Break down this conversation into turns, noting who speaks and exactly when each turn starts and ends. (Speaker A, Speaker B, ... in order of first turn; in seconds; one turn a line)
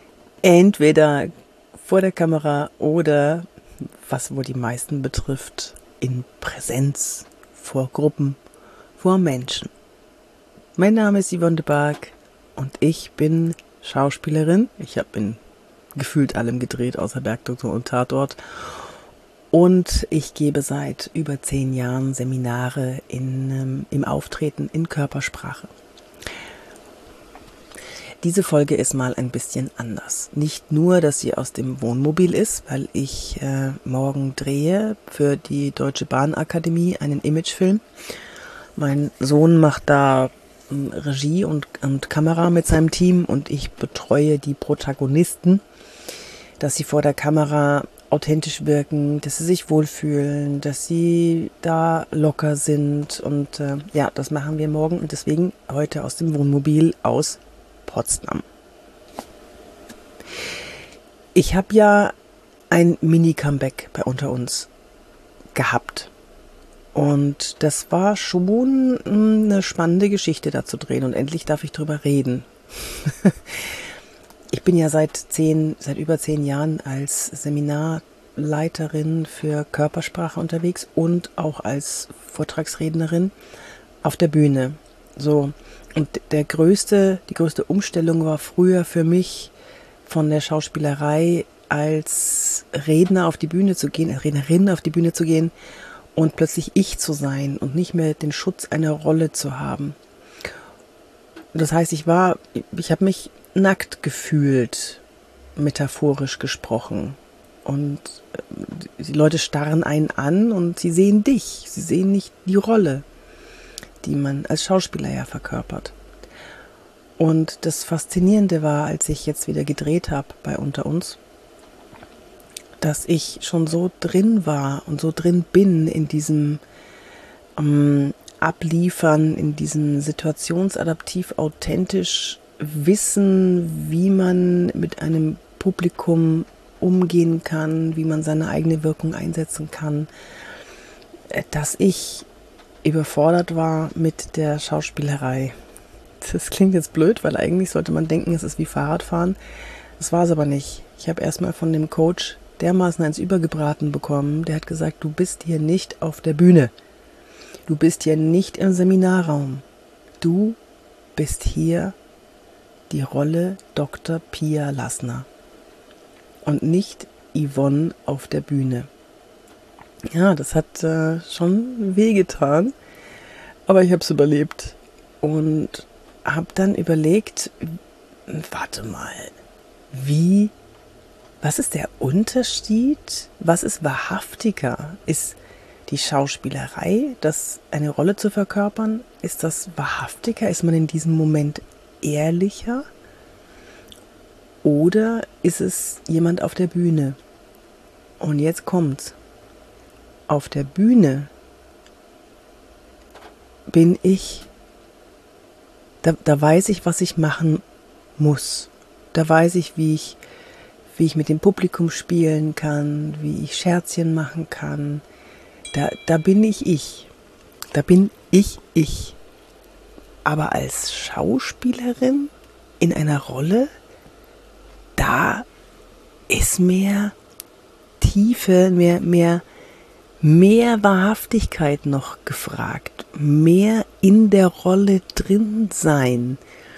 Speaker A: 0.4-3.5
Speaker A: 4.0-8.4
Speaker A: 9.0-9.7
Speaker A: 10.8-15.4
Speaker A: 15.9-18.6
Speaker A: 19.5-25.7
Speaker A: 28.2-37.8
Speaker A: 38.8-45.6
Speaker A: 46.6-58.4
Speaker A: 61.3-62.1
Speaker A: 62.7-64.7
Speaker A: 65.5-66.1
Speaker A: 66.9-73.7
Speaker A: 74.5-83.3
Speaker A: 84.0-89.5
Speaker A: 90.0-95.5
Speaker A: 96.2-100.0
Speaker A: 101.5-105.0
Speaker A: 105.5-113.0
Speaker A: 114.0-115.9
Speaker A: 117.2-121.2
Speaker A: 122.8-126.6
Speaker A: 127.6-140.1
Speaker A: 141.3-142.3
Speaker A: 142.8-145.5
Speaker A: 146.2-149.4
Speaker A: 150.0-156.7
Speaker A: 157.7-159.6
Speaker A: 160.2-160.6
Speaker A: 161.2-161.9
Speaker A: 162.9-165.3
Speaker A: 166.4-168.9
Speaker A: 170.1-172.7
Speaker A: 173.7-179.3
Speaker A: 179.9-180.5
Speaker A: 181.4-192.8
Speaker A: 194.6-197.2
Speaker A: 198.2-199.2
Speaker A: 200.3-201.3
Speaker A: 203.7-204.5
Speaker A: 206.0-207.6
Speaker A: 208.2-210.2
Speaker A: 210.9-215.0
Speaker A: 215.7-217.1
Speaker A: 217.7-219.2
Speaker A: 220.2-223.7
Speaker A: 225.0-225.5
Speaker A: 226.3-227.2
Speaker A: 228.0-229.4
Speaker A: 230.2-236.4